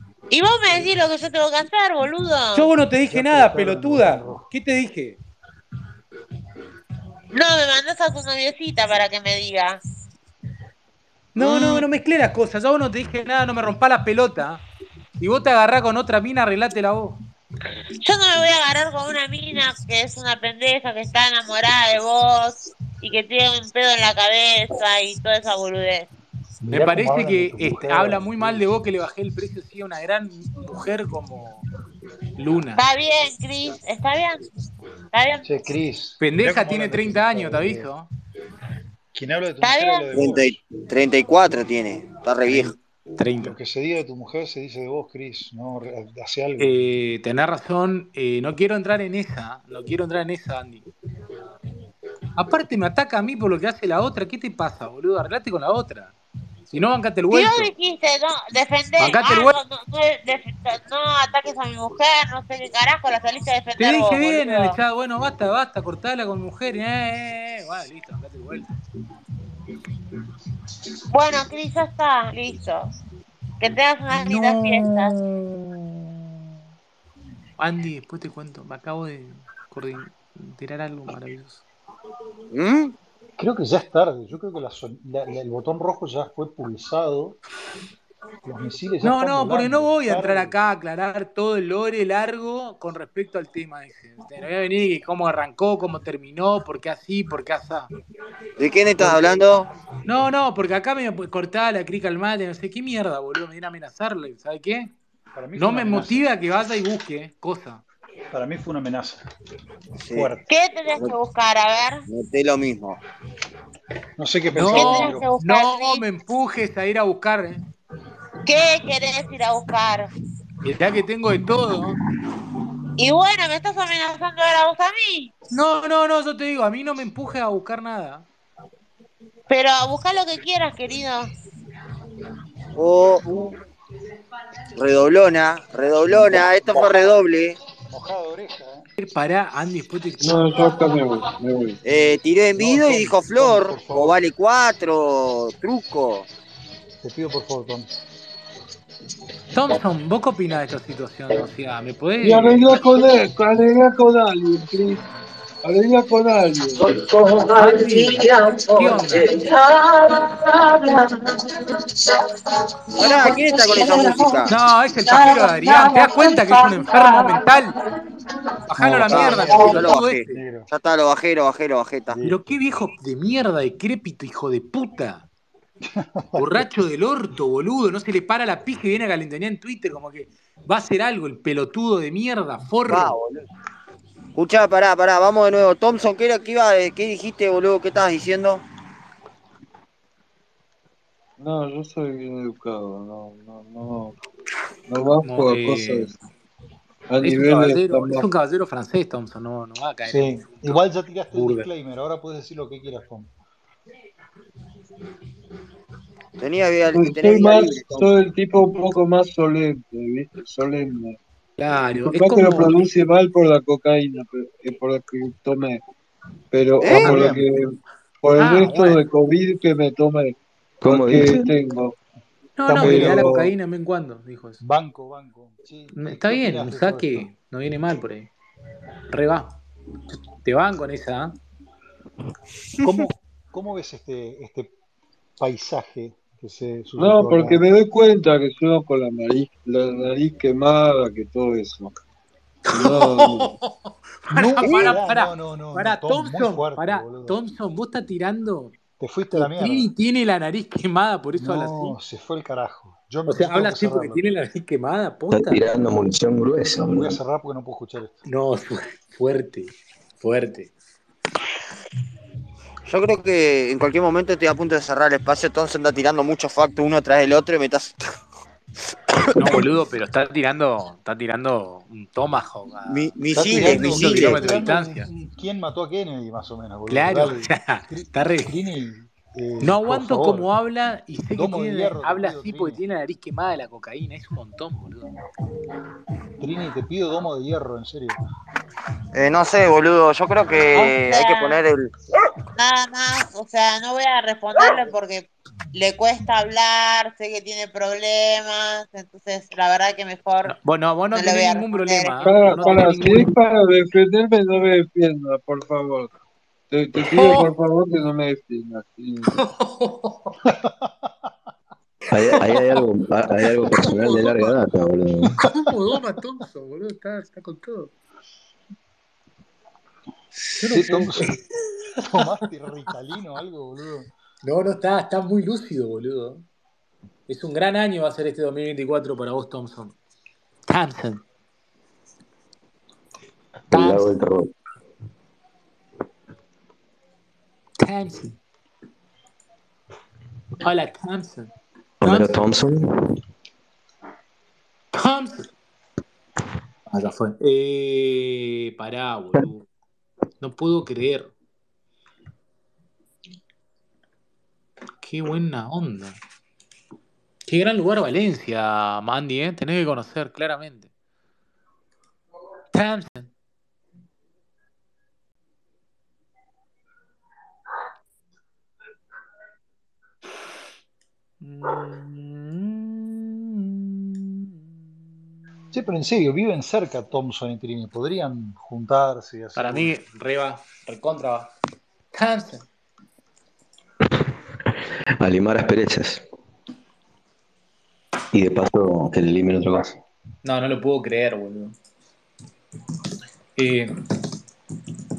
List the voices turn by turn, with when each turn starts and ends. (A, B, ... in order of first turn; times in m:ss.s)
0:00.3-0:02.7 A
0:02.6-0:05.2 B
0:03.1-0:04.5 C
0:07.3-0:09.8 A
0:11.4-0:14.6 B
0:11.4-0:11.8 D
0:15.2-0:17.2 B
0:18.0-0:26.1 A
0:26.6-0:28.7 C
0:26.7-0:31.6 B
0:32.4-0:32.8 B
0:32.8-0:34.4 A
0:35.1-0:35.4 A
0:35.4-0:37.9 C
0:36.2-0:38.1 B
0:39.1-0:40.6 C
0:39.6-0:40.1 A
0:40.1-0:42.7 D
0:42.5-0:43.6 B
0:43.4-0:46.8 C
0:46.6-0:50.8 B
0:52.4-0:56.1 B
0:56.7-0:57.7 B
0:57.3-1:04.8 A
0:59.0-0:59.6 B
1:03.8-1:08.7 B
1:11.1-1:12.9 A
1:13.6-1:15.1 A
1:14.2-1:15.1 B
1:17.6-1:21.6 B
1:22.5-1:22.9 D
1:23.4-1:27.4 C
1:28.4-1:30.6 C
1:29.0-1:37.9 B
1:38.6-1:39.7 D
1:39.0-1:39.4 C
1:40.0-1:44.9 B
1:45.3-1:46.4 C
1:45.6-1:47.8 B
1:48.3-1:49.2 C
1:50.0-1:50.3 D
1:50.1-1:50.5 C
1:50.5-1:52.0 A
1:52.1-1:53.0 D
1:54.2-1:55.3 C
1:54.6-1:57.6 B
1:54.7-1:56.0 A
1:58.4-2:00.1 A
2:00.6-2:02.0 B
2:03.0-2:05.3 A
2:05.5-2:08.2 B
2:09.5-2:11.3 A
2:12.8-2:13.3 D
2:14.8-2:17.6 D
2:17.9-2:18.9 C
2:19.0-2:20.6 B
2:20.2-2:21.8 E
2:21.8-2:26.3 D
2:22.6-2:24.2 C
2:27.0-2:27.9 C
2:29.5-2:32.8 B
2:32.2-2:35.0 E
2:35.6-2:36.8 E
2:37.5-2:39.4 B
2:43.0-2:44.5 D
2:44.5-2:47.7 B
2:48.7-2:50.3 B
2:48.8-2:50.7 C
2:49.1-2:52.2 D
2:52.1-2:52.6 C
2:52.2-2:55.2 B
2:56.2-2:56.7 C
2:56.4-3:03.2 B
3:02.9-3:03.5 D
3:04.4-3:08.6 D
3:11.4-3:14.2 E
3:14.9-3:16.1 E
3:15.2-3:16.2 B
3:17.1-3:18.3 E
3:17.2-3:20.8 B
3:20.1-3:23.3 C
3:21.3-3:21.7 B
3:26.4-3:28.0 D
3:26.9-3:31.2 E
3:31.6-3:32.8 B
3:32.0-3:35.8 E
3:36.5-3:42.0 E
3:36.8-3:37.2 D
3:36.8-3:37.5 C
3:38.3-3:39.0 B
3:40.8-3:41.5 F
3:42.6-3:44.6 B
3:42.7-3:43.4 C
3:42.8-3:43.5 E
3:44.6-3:47.3 C
3:46.0-3:48.3 B
3:49.1-3:49.6 B
3:50.1-3:51.4 B
3:52.8-3:54.7 C
3:55.4-3:57.6 C
3:57.0-4:01.9 E
4:02.7-4:08.8 B
4:02.7-4:03.5 E
4:04.3-4:07.4 C
4:09.0-4:09.9 C
4:09.3-4:12.0 B
4:11.4-4:14.3 C
4:13.3-4:15.6 B
4:15.3-4:17.2 F
4:16.9-4:18.2 C
4:18.3-4:20.7 B
4:22.8-4:28.0 D
4:29.4-4:29.6 D
4:29.4-4:35.1 B
4:32.9-4:34.7 D
4:33.3-4:40.5 C
4:36.9-4:38.5 B
4:39.6-4:45.1 B
4:41.3-4:42.8 C
4:46.4-4:48.2 C
4:49.1-4:51.9 D
4:50.7-4:51.6 A
4:52.6-5:00.5 A
5:00.4-5:03.4 B
5:01.1-5:02.3 A
5:02.2-5:06.1 E
5:06.7-5:09.3 E
5:07.0-5:07.5 B
5:09.3-5:10.4 B
5:12.1-5:15.3 F
5:12.4-5:12.7 B
5:13.4-5:14.5 B
5:15.4-5:17.9 B
5:20.6-5:21.3 C
5:20.6-5:21.4 B
5:22.0-5:24.1 C
5:24.4-5:26.4 B
5:27.3-5:30.0 B
5:30.7-5:31.2 B
5:33.7-5:34.5 F
5:33.7-5:34.2 B
5:37.8-5:38.4 B
5:40.6-5:41.5 B
5:42.0-5:43.1 F
5:42.0-5:42.4 B
5:44.9-5:45.5 B
5:46.9-5:49.6 B
5:50.4-5:51.3 B
5:55.0-5:56.2 B
5:57.5-6:00.9 B
6:02.7-6:03.3 B
6:11.4-6:14.5 B
6:15.7-6:20.0 C
6:19.6-6:21.5 B
6:22.1-6:22.6 B
6:25.2-6:26.2 F
6:28.3-6:30.0 F
6:30.4-6:31.8 B
6:33.6-6:33.9 B